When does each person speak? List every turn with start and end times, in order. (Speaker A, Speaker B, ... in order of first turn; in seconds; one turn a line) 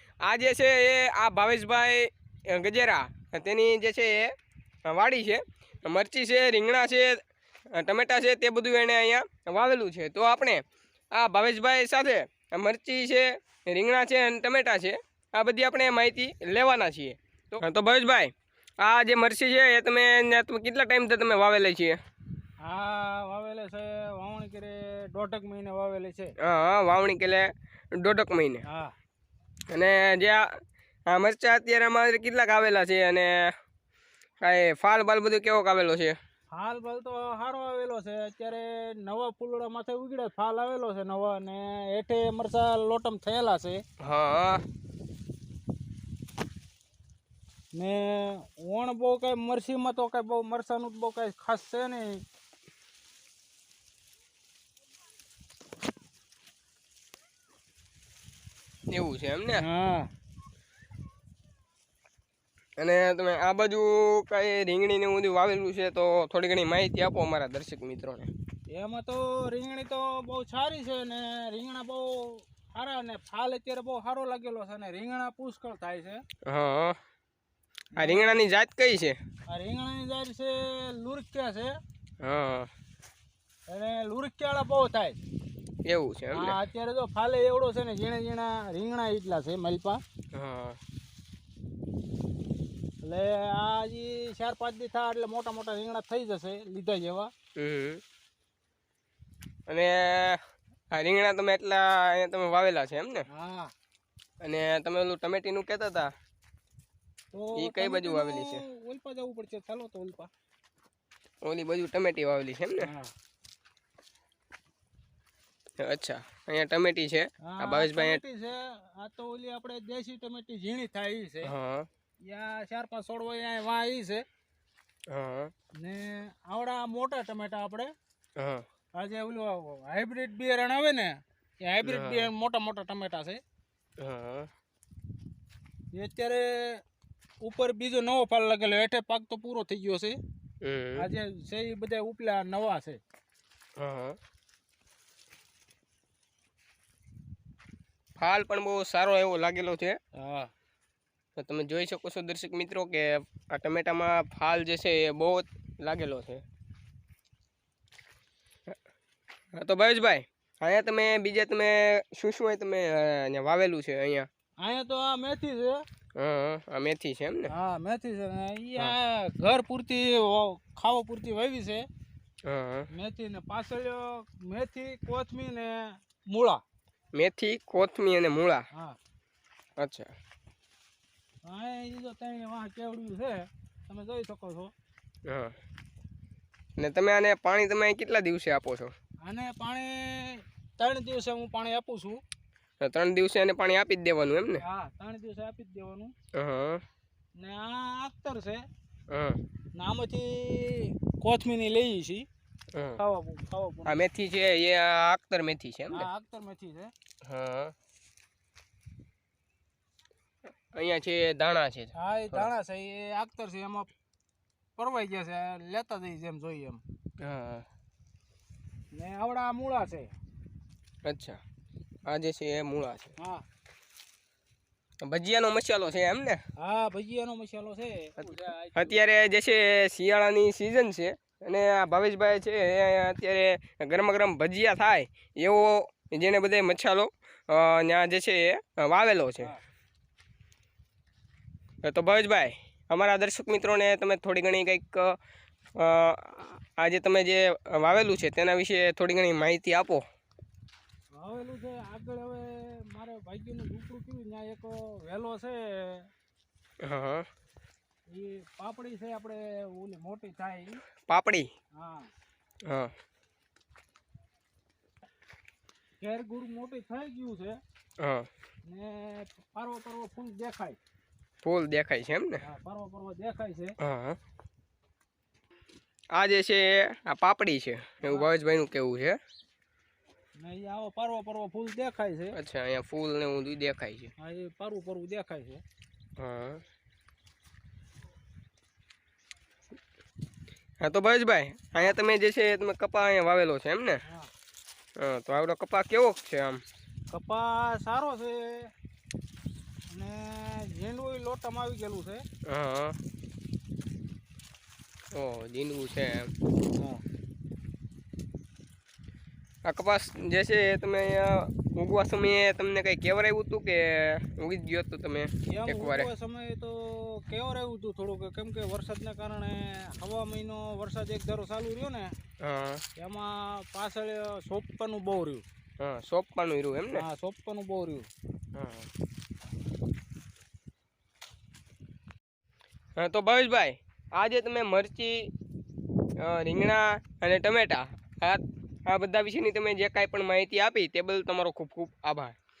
Speaker A: 0.2-4.3
Speaker A: 4.8-7.2
Speaker A: 7.7-22.0
Speaker B: 22.6-26.3
Speaker A: 26.4-28.6
Speaker B: 28.6-28.9
Speaker A: 29.7-33.5
Speaker A: 34.4-36.2
Speaker B: 36.5-43.8
Speaker A: 44.0-44.6
Speaker B: 47.7-52.2
Speaker A: 58.9-59.6
Speaker B: 59.6-60.1
Speaker A: 62.8-68.3
Speaker B: 68.7-76.2
Speaker A: 76.4-77.0
Speaker B: 77.9-78.4
Speaker A: 78.0-79.2
Speaker B: 79.5-81.8
Speaker A: 82.2-82.7
Speaker B: 83.7-85.2
Speaker A: 85.8-86.6
Speaker B: 86.3-90.0
Speaker A: 90.3-90.8
Speaker B: 93.0-97.3
Speaker A: 97.6-98.0
Speaker A: 99.7-100.4
Speaker A: 100.9-103.2
Speaker B: 103.3-103.7
Speaker A: 104.4-106.1
Speaker B: 107.3-110.3
Speaker A: 107.5-108.6
Speaker A: 111.4-112.9
Speaker B: 112.8-113.1
Speaker A: 115.8-118.2
Speaker B: 117.4-121.5
Speaker A: 121.4-121.9
Speaker B: 122.2-124.2
Speaker A: 125.1-125.5
Speaker B: 125.8-127.9
Speaker A: 128.4-128.6
Speaker B: 128.9-133.4
Speaker A: 131.8-132.3
Speaker A: 134.0-134.5
Speaker B: 135.9-136.8
Speaker B: 137.4-140.2
Speaker A: 140.6-141.1
Speaker B: 141.0-143.0
Speaker A: 143.8-144.2
Speaker A: 148.2-150.0
Speaker B: 150.2-150.5
Speaker A: 151.4-156.4
Speaker A: 159.5-164.3
Speaker B: 164.6-165.8
Speaker A: 166.2-167.5
Speaker B: 167.5-171.8
Speaker A: 172.4-172.9
Speaker B: 172.9-176.6
Speaker A: 177.1-178.6
Speaker A: 179.8-180.1
Speaker B: 181.4-184.7
Speaker A: 185.2-185.5
Speaker A: 186.8-188.9
Speaker B: 189.2-192.2
Speaker A: 192.8-194.6
Speaker B: 194.6-196.1
Speaker A: 196.3-196.8
Speaker B: 197.4-198.6
Speaker A: 199.1-199.4
Speaker B: 199.8-202.3
Speaker A: 202.7-203.0
Speaker B: 203.0-203.9
Speaker A: 203.8-206.1
Speaker B: 205.9-206.9
Speaker A: 207.2-207.7
Speaker A: 210.7-212.4
Speaker B: 211.9-213.9
Speaker B: 214.8-216.8
Speaker A: 217.2-217.6
Speaker B: 218.9-220.1
Speaker A: 221.0-221.4
Speaker A: 222.1-223.1
Speaker B: 223.2-223.4
Speaker A: 225.0-226.4
Speaker B: 226.6-229.0
Speaker A: 228.7-239.5
Speaker A: 241.8-245.2
Speaker A: 245.8-250.0
Speaker B: 251.2-256.1
Speaker A: 256.8-257.3
Speaker B: 258.1-260.8
Speaker A: 261.1-261.5
Speaker B: 261.8-262.1
Speaker A: 262.6-262.9
Speaker B: 266.0-267.6
Speaker A: 268.0-268.3
Speaker B: 268.6-270.8
Speaker A: 271.4-272.4
Speaker B: 272.4-273.8
Speaker A: 273.8-274.2
Speaker A: 276.1-279.2
Speaker B: 278.0-278.3
Speaker B: 280.4-282.3
Speaker A: 282.3-284.1
Speaker B: 284.2-285.6
Speaker A: 286.2-286.6
Speaker A: 290.8-294.0
Speaker A: 295.0-296.6
Speaker B: 297.1-298.7
Speaker B: 299.9-302.2
Speaker A: 302.4-303.0
Speaker A: 305.1-306.3
Speaker B: 306.8-307.0
Speaker A: 309.6-316.1
Speaker B: 315.5-322.1
Speaker A: 322.4-322.8
Speaker B: 322.9-325.4
Speaker A: 325.8-327.0
Speaker B: 326.9-328.1
Speaker A: 328.5-328.9
Speaker A: 333.0-335.3
Speaker A: 336.2-342.3